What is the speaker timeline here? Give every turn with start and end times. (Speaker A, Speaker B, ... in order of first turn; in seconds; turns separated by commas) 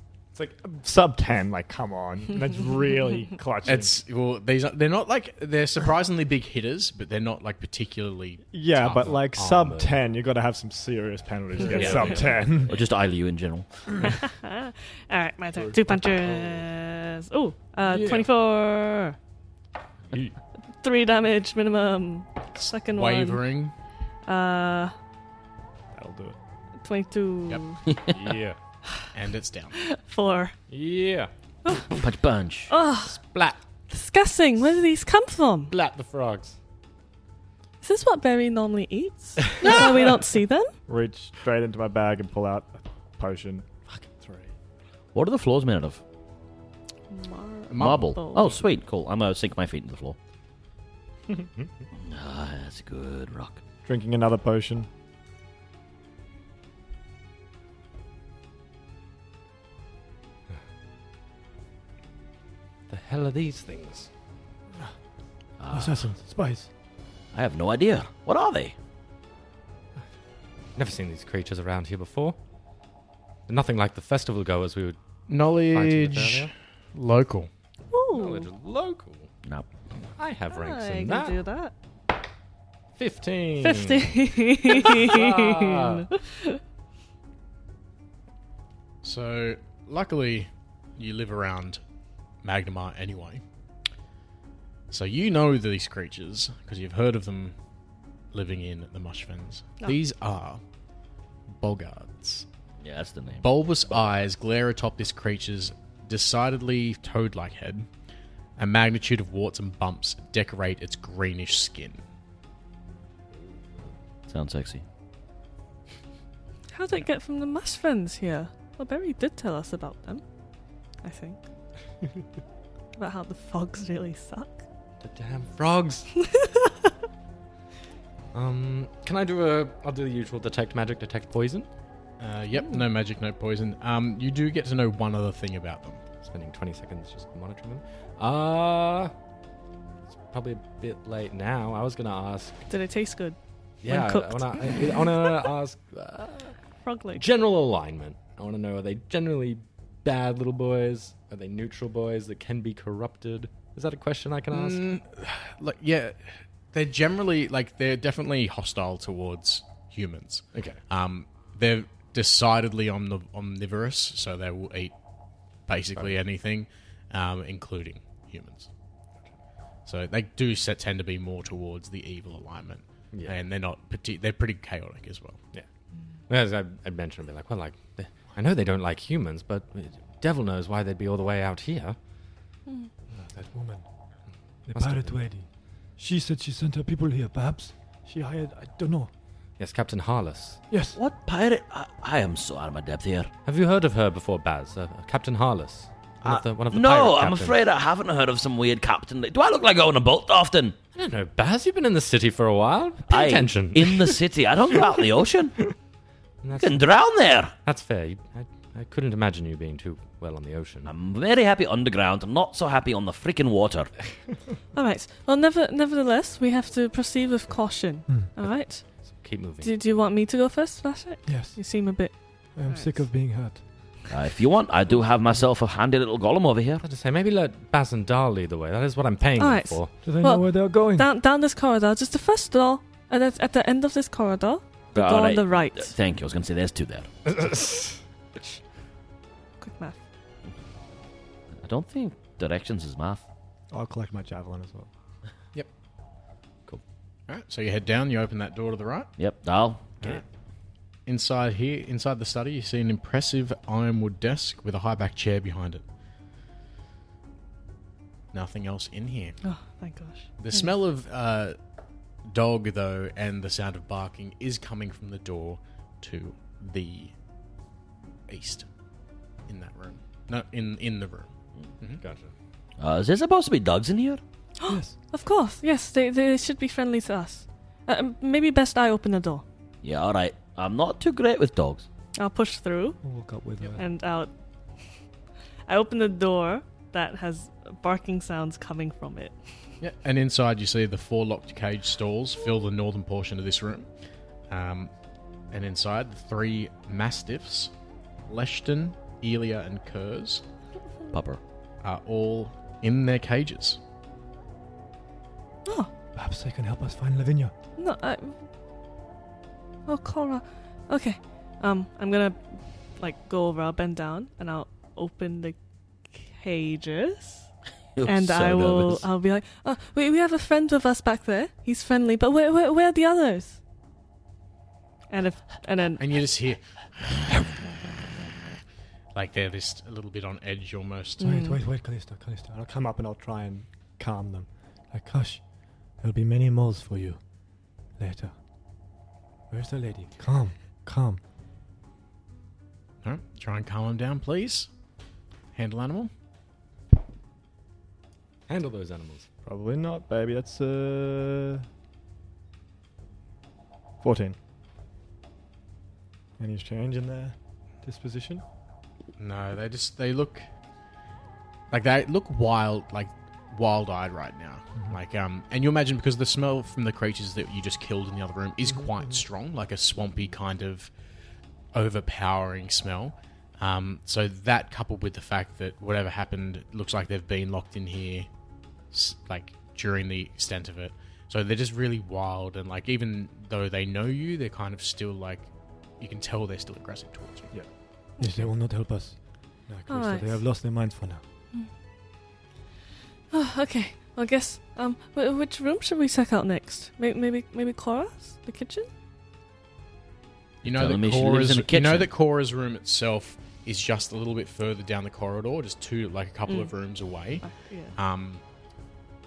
Speaker A: 0.5-3.9, Speaker B: 3.6-8.4, Speaker A: 8.5-12.8, Speaker C: 8.8-10.0, Speaker B: 11.6-12.3, Speaker C: 11.7-12.3, Speaker D: 12.5-13.7, Speaker E: 14.0-19.2, Speaker C: 16.0-16.6, Speaker C: 17.9-18.3, Speaker E: 20.8-23.4, Speaker B: 22.6-23.7, Speaker E: 24.2-24.9, Speaker A: 25.9-26.4, Speaker E: 26.8-27.9, Speaker C: 28.1-28.6, Speaker B: 29.1-29.8, Speaker E: 29.7-30.5, Speaker C: 30.7-31.3, Speaker E: 31.6-31.9, Speaker D: 31.9-32.7, Speaker E: 32.7-33.2, Speaker E: 33.9-35.7, Speaker C: 35.7-36.6, Speaker E: 37.8-40.7, Speaker A: 40.9-44.5, Speaker D: 45.1-46.0, Speaker E: 47.1-48.6, Speaker B: 47.7-48.6, Speaker D: 47.7-50.2, Speaker D: 52.0-53.6, Speaker A: 53.8-54.9, Speaker C: 62.9-64.1, Speaker D: 65.6-66.1, Speaker A: 65.7-66.7, Speaker D: 67.3-68.8, Speaker C: 70.8-72.4, Speaker C: 73.5-76.5, Speaker B: 75.3-77.5, Speaker E: 77.9-78.5, Speaker C: 78.1-79.3, Speaker C: 80.2-81.4, Speaker E: 80.5-81.7, Speaker C: 83.0-86.1, Speaker E: 83.6-86.6, Speaker B: 89.0-91.8, Speaker B: 92.4-93.4, Speaker B: 94.9-97.5, Speaker B: 98.3-100.6, Speaker B: 101.5-102.5, Speaker D: 102.8-103.5, Speaker B: 103.4-107.9, Speaker B: 108.6-112.0, Speaker D: 114.3-114.8, Speaker E: 116.7-120.2, Speaker E: 121.0-121.4, Speaker E: 123.0-124.6, Speaker C: 125.0-126.1, Speaker E: 126.2-126.9, Speaker C: 128.3-131.7, Speaker B: 132.2-136.0, Speaker C: 136.2-139.1, Speaker C: 140.1-142.6, Speaker E: 142.7-145.3, Speaker C: 143.8-146.5, Speaker E: 146.8-147.2, Speaker C: 147.1-154.9, Speaker B: 154.5-164.9, Speaker C: 160.5-160.8, Speaker B: 165.7-168.7, Speaker B: 169.8-175.4, Speaker C: 173.1-173.4, Speaker C: 176.3-182.0, Speaker A: 183.1-183.8, Speaker A: 184.7-185.5, Speaker C: 184.7-185.2, Speaker A: 186.0-189.1, Speaker C: 189.6-190.6, Speaker A: 190.7-191.0, Speaker D: 190.9-193.3, Speaker C: 193.4-197.6, Speaker D: 196.2-200.8, Speaker C: 200.9-204.2, Speaker D: 203.1-205.6, Speaker C: 206.4-206.8, Speaker D: 206.5-207.5, Speaker C: 207.6-210.9, Speaker D: 210.8-213.9, Speaker E: 214.7-218.8, Speaker C: 219.0-219.7, Speaker E: 219.6-223.0, Speaker A: 221.3-221.6, Speaker A: 222.6-223.6, Speaker D: 224.1-226.8, Speaker C: 226.8-229.9, Speaker E: 229.4-235.9, Speaker A: 230.0-231.1, Speaker D: 234.9-237.1, Speaker C: 237.2-238.0, Speaker E: 239.6-240.0, Speaker D: 241.6-243.2, Speaker A: 243.7-244.9, Speaker B: 247.3-249.1, Speaker D: 249.2-250.2, Speaker B: 251.1-255.8, Speaker B: 258.3-259.4, Speaker E: 259.4-260.3, Speaker B: 260.4-261.6, Speaker B: 262.2-267.1, Speaker B: 268.3-268.6, Speaker B: 269.5-271.3, Speaker C: 272.0-272.3, Speaker D: 272.8-274.2, Speaker E: 274.6-279.4, Speaker A: 274.6-274.9, Speaker D: 279.8-281.9, Speaker E: 282.1-283.0, Speaker A: 283.0-283.9, Speaker E: 283.8-284.3, Speaker E: 285.7-289.4, Speaker B: 289.8-293.9, Speaker B: 294.5-294.9, Speaker B: 295.5-297.7, Speaker B: 298.3-300.4, Speaker D: 301.1-301.4, Speaker B: 301.8-303.8, Speaker E: 305.6-305.9, Speaker A: 306.1-307.5, Speaker E: 307.8-308.4, Speaker E: 309.9-315.6, Speaker E: 316.1-317.5, Speaker D: 318.0-319.1, Speaker E: 318.0-323.6, Speaker E: 325.1-326.0, Speaker B: 326.0-327.5, Speaker B: 329.1-331.3, Speaker E: 331.2-331.6, Speaker A: 331.2-335.4, Speaker A: 336.0-337.2, Speaker A: 338.0-338.3, Speaker A: 339.5-341.2, Speaker B: 343.0-344.7, Speaker B: 345.5-346.1, Speaker C: 348.5-349.3, Speaker A: 349.4-351.6, Speaker A: 354.0-354.4, Speaker A: 356.4-358.4, Speaker B: 359.2-360.4, Speaker B: 361.7-370.9, Speaker B: 371.7-378.3, Speaker B: 378.9-385.5, Speaker B: 386.0-387.5, Speaker A: 387.5-391.2, Speaker E: 389.9-390.4, Speaker E: 393.3-398.9, Speaker B: 400.6-408.4, Speaker D: 400.6-402.1, Speaker E: 406.5-406.7, Speaker E: 407.4-407.9